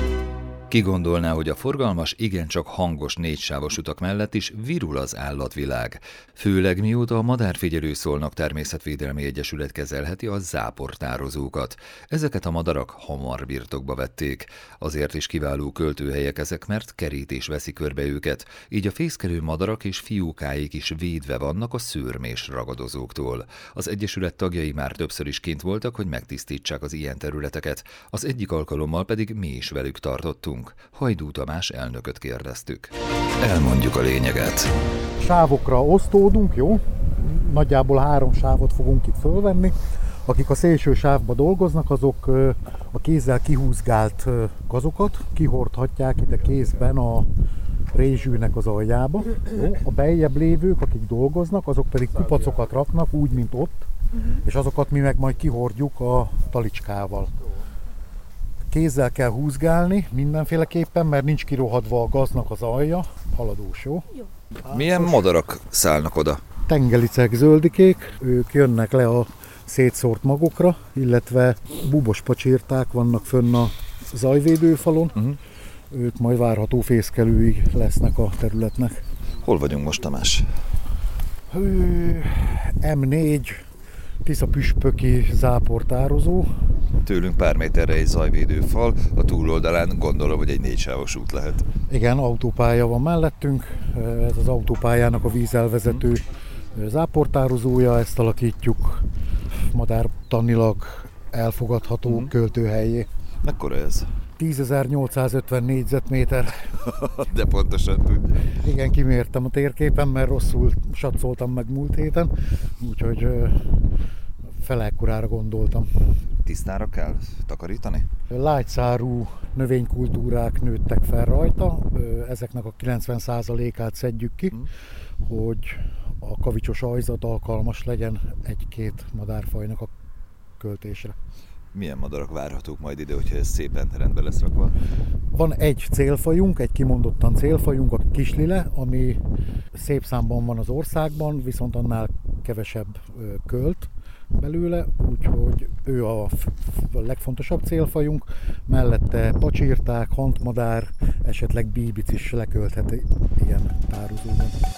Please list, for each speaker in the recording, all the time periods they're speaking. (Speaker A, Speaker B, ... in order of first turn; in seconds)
Speaker A: 0.7-34.7, 64.6-66.4, 79.4-80.5, 87.0-91.7, 103.4-104.1, 106.8-108.5, 116.4-118.1, 131.7-134.7
Speaker B: 35.2-39.7, 40.2-47.3, 47.9-57.3, 58.7-64.2, 66.7-75.3, 75.9-79.0, 81.5-83.5, 84.2-86.5, 91.9-99.0, 99.7-103.1, 104.4-106.6, 108.6-113.5, 114.6-115.9, 118.3-124.6, 125.2-129.9, 130.6-131.1, 135.3-139.2, 139.7-154.6